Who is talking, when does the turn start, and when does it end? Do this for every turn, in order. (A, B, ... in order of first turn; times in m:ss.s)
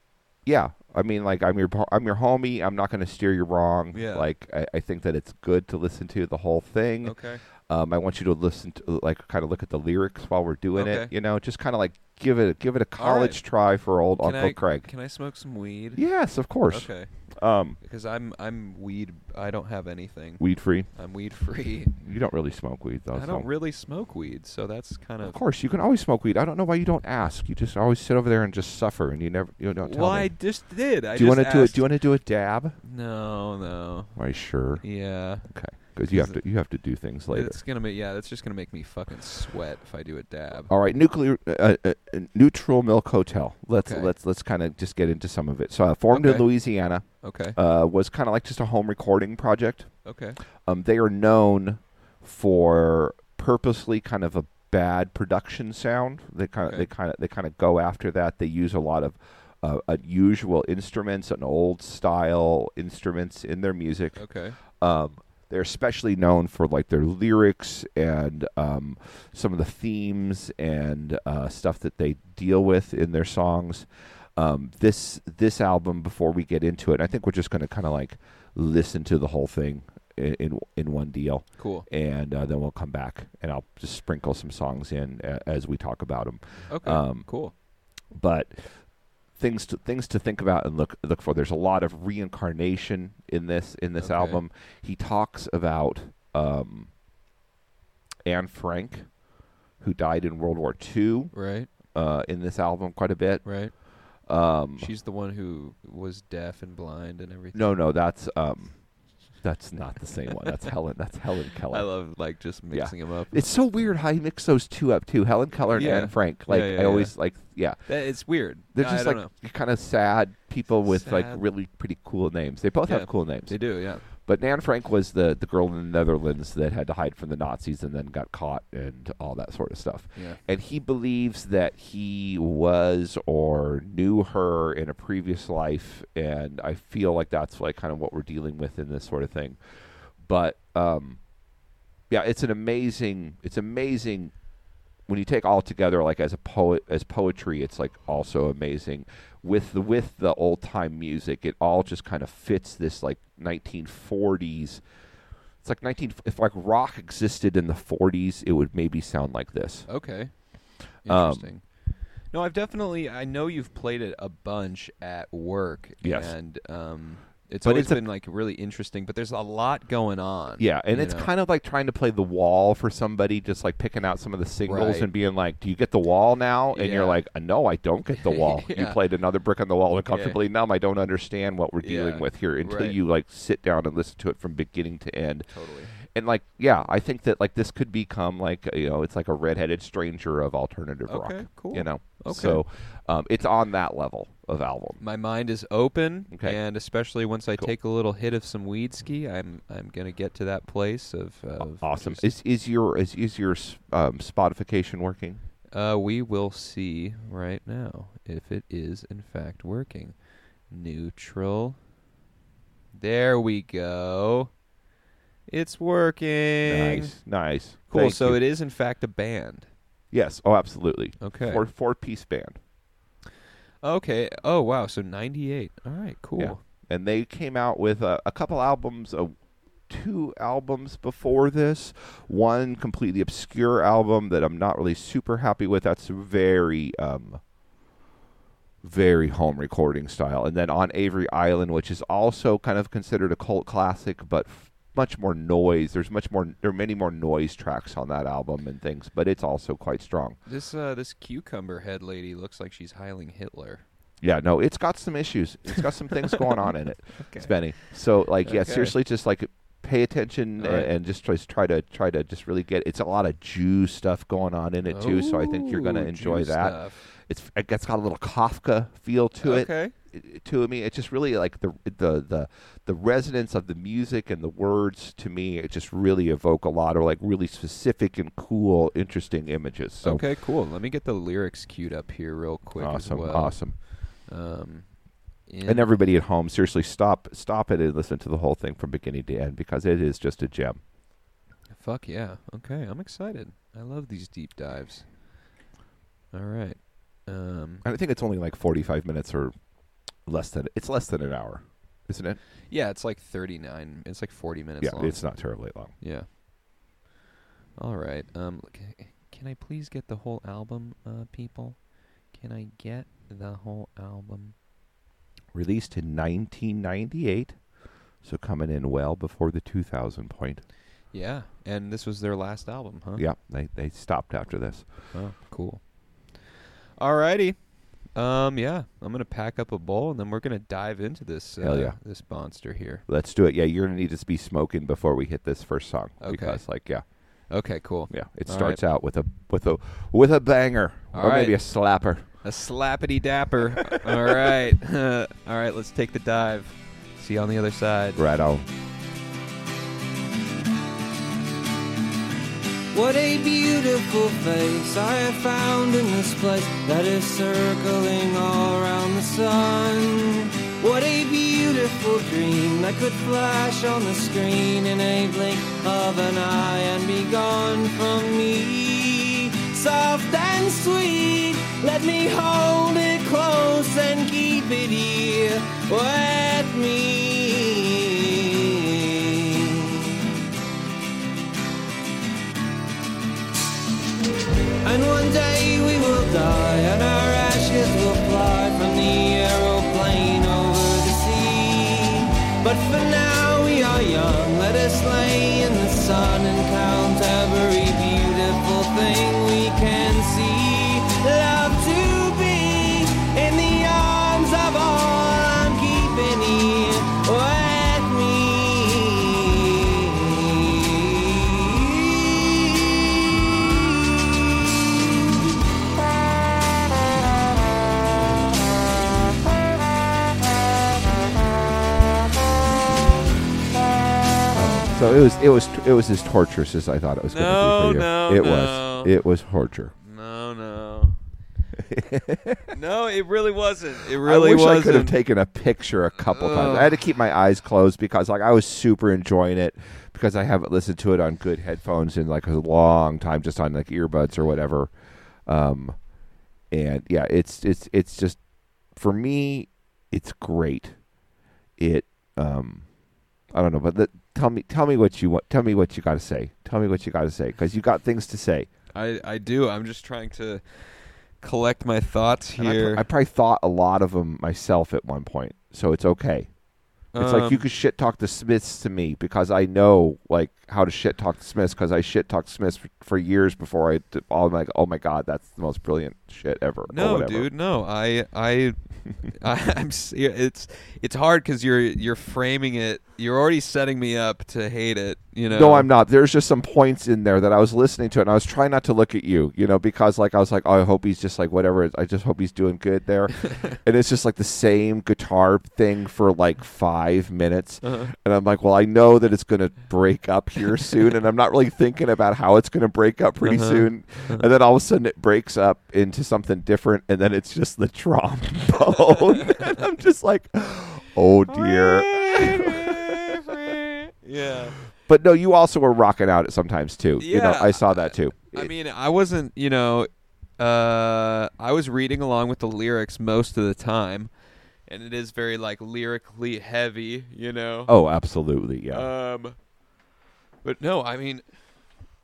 0:00.4-0:14.9 A
0:03.9-0:04.3 B
0:07.0-0:07.4 B
0:10.8-0:11.1 B
0:13.0-0:13.4 B
0:14.2-0:16.0 B
0:16.0-0:17.8 A
0:16.7-0:17.1 B
0:17.8-0:20.4 B
0:20.4-0:20.9 A
0:20.9-0:21.9 B
0:22.0-0:23.5 A
0:23.1-0:25.4 B
0:25.2-0:30.3 A
0:29.8-0:31.9 B
0:31.1-0:32.8 A
0:32.8-0:34.2 B
0:34.2-0:34.8 A
0:34.8-0:35.5 B
0:35.4-0:37.6 A
0:36.1-0:36.4 B
0:37.3-0:40.7 B
0:40.7-0:49.9 A
0:43.8-0:44.1 B
0:46.1-0:46.5 B
0:47.2-0:47.6 B
0:50.0-0:50.4 B
0:50.6-1:27.3 A
1:04.2-1:04.6 B
1:21.6-1:21.9 B
1:26.7-1:27.5 B
1:28.1-1:28.8 A
1:29.3-1:36.9 A
1:34.0-1:34.4 B
1:38.3-1:39.1 A
1:39.8-1:44.9 A
1:41.3-1:41.7 B
1:43.4-1:43.7 B
1:44.8-1:47.8 B
1:47.5-1:48.9 A
1:49.4-1:51.9 A
1:51.7-1:53.4 B
1:52.7-1:57.8 A
1:55.8-1:57.2 B
1:57.9-1:59.3 B
1:58.7-2:19.6 A
2:00.9-2:01.4 B
2:02.9-2:04.0 B
2:20.2-2:21.2 A
2:22.1-2:24.3 A
2:25.1-2:34.8 A
2:35.6-2:39.9 A
2:39.9-2:40.4 B
2:41.0-2:41.6 B
2:41.1-2:41.5 A
2:42.3-2:51.3 B
2:46.0-2:46.4 A
2:47.6-2:48.0 A
2:50.6-3:05.5 A
2:54.7-2:55.1 B
2:56.7-2:57.2 B
2:58.2-2:59.0 B
3:00.1-3:00.4 B
3:01.8-3:03.0 B
3:05.5-3:05.9 B
3:06.0-3:15.0 A
3:11.1-3:12.6 B
3:15.0-3:22.3 B
3:16.3-3:16.6 A
3:21.6-3:25.4 A
3:25.7-3:30.1 B
3:30.7-3:31.8 B
3:33.0-3:34.5 B
3:35.5-3:37.1 B
3:36.7-3:38.4 A
3:37.9-3:39.7 B
3:40.1-3:42.6 A
3:41.2-3:41.6 B
3:43.8-3:46.6 B
3:46.4-3:49.3 A
3:49.9-3:57.4 A
3:58.8-4:10.4 A
4:10.5-4:13.8 B
4:14.2-4:40.2 A
4:15.8-4:17.6 B
4:18.4-4:19.0 B
4:20.6-4:20.9 B
4:24.9-4:27.0 B
4:29.4-4:29.9 B
4:40.0-4:44.9 B
4:42.8-4:43.8 A
4:45.5-4:46.0 B
4:45.6-4:50.8 A
4:51.7-4:55.1 B
4:56.3-4:57.8 B
4:57.8-4:59.5 A
5:00.2-5:02.4 A
5:02.7-5:05.2 B
5:04.8-5:05.9 A
5:06.0-5:06.3 B
5:07.8-5:14.6 B
5:15.5-5:17.6 A
5:18.2-5:20.6 A
5:21.1-5:23.2 B
5:23.2-5:24.8 A
5:25.1-5:25.8 B
5:27.0-5:27.6 B
5:28.1-5:33.0 B
5:31.6-5:32.0 A
5:33.1-5:37.0 A
5:36.2-5:36.6 B
5:37.5-5:38.8 B
5:38.1-5:42.2 A
5:41.1-5:41.6 B
5:42.4-5:48.2 B
5:44.0-5:44.5 A
5:48.2-5:48.7 A
5:52.9-6:20.2 C
6:24.8-6:54.1 C
7:04.5-7:09.9 A
7:07.3-7:09.1 B
7:10.0-7:11.2 B
7:11.8-7:12.7 A
7:12.7-7:15.2 B
7:14.2-7:24.9 A
7:16.2-7:17.0 B
7:25.5-7:26.0 A
7:26.7-7:28.4 A
7:29.0-7:31.0 A
7:31.8-7:32.8 A
7:33.5-7:38.7 A
7:38.9-7:43.0 B
7:42.6-7:46.5 A
7:47.1-7:47.6 B
7:47.2-7:57.5 A
7:56.9-8:05.9 B
8:05.5-8:33.6 A
8:17.8-8:18.1 B
8:23.4-8:24.5 B
8:31.5-8:34.8 B
8:35.0-8:38.7 A
8:37.2-8:44.3 B
8:44.9-8:47.9 B
8:47.9-8:49.1 A
8:48.9-8:49.6 B
8:50.6-8:51.4 B